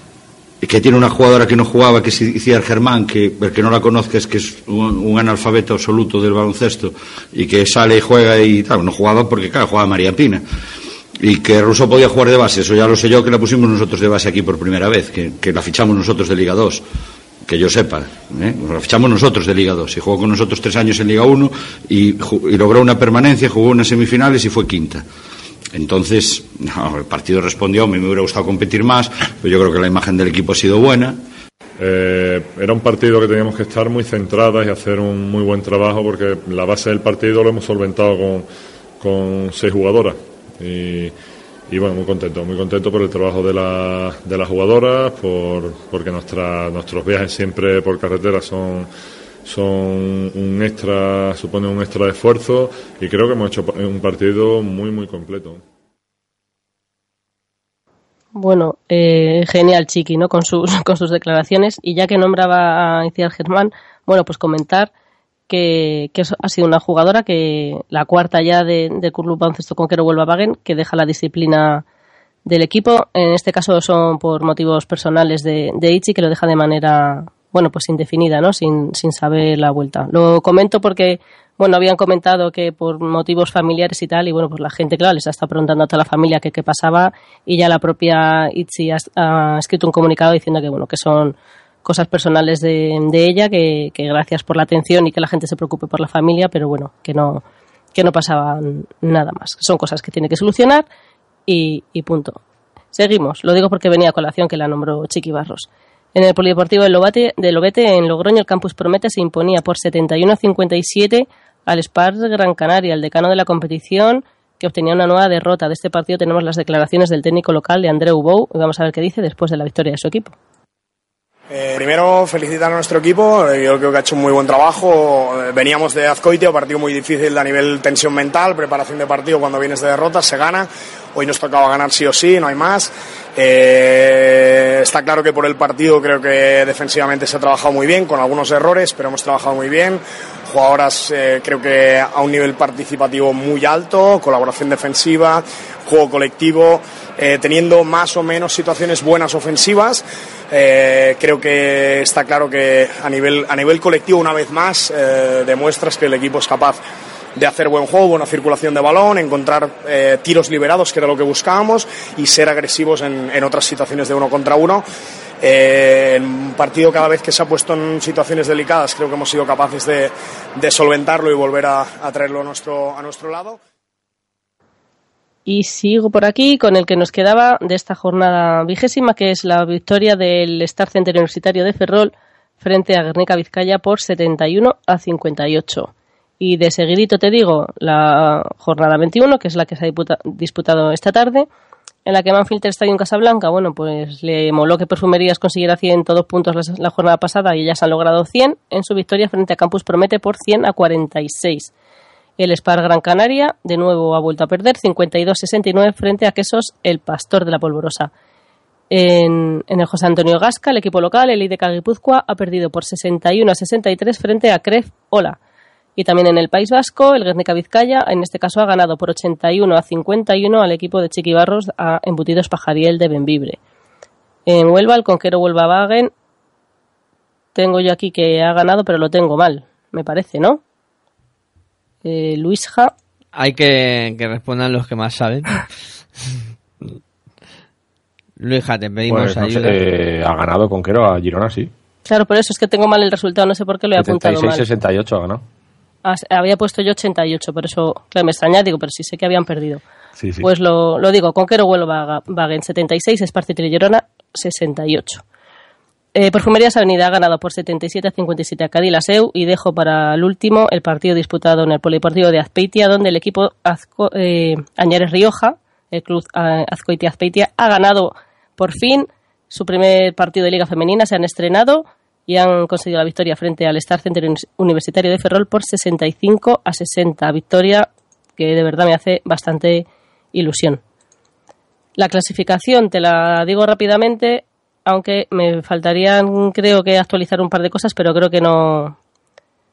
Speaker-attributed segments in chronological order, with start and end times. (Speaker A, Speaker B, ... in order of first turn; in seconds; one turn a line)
Speaker A: 0.6-10.4
Speaker A: 11.2-16.8
Speaker A: 17.4-25.0
Speaker A: 25.7-31.2
Speaker B: 31.8-38.5
Speaker B: 39.0-41.1
Speaker B: 41.7-48.9
Speaker B: 49.4-55.6
Speaker C: 58.3-64.9
Speaker C: 65.5-71.8
Speaker C: 72.5-97.4
Speaker C: 97.9-100.8
Speaker C: 101.5-102.4
Speaker C: 102.9-120.3
Speaker D: 121.5-156.8
Speaker D: 157.3-164.8
Speaker D: 165.4-173.6
Speaker C: 175.4-191.4
Speaker C: 192.1-201.7
Speaker C: 202.4-208.1
Speaker C: 208.9-215.4
Speaker C: 216.0-223.6
Speaker C: 224.5-226.1
Speaker C: 227.5-230.6
Speaker C: 232.0-232.9
Speaker E: 233.3-235.7
Speaker E: 238.4-239.8
Speaker F: 239.1-241.7
Speaker C: 242.1-244.6
Speaker F: 243.9-245.4
Speaker C: 246.0-249.8
Speaker F: 250.2-250.5
Speaker C: 250.4-255.2
Speaker C: 256.1-280.8
Speaker C: 282.0-288.9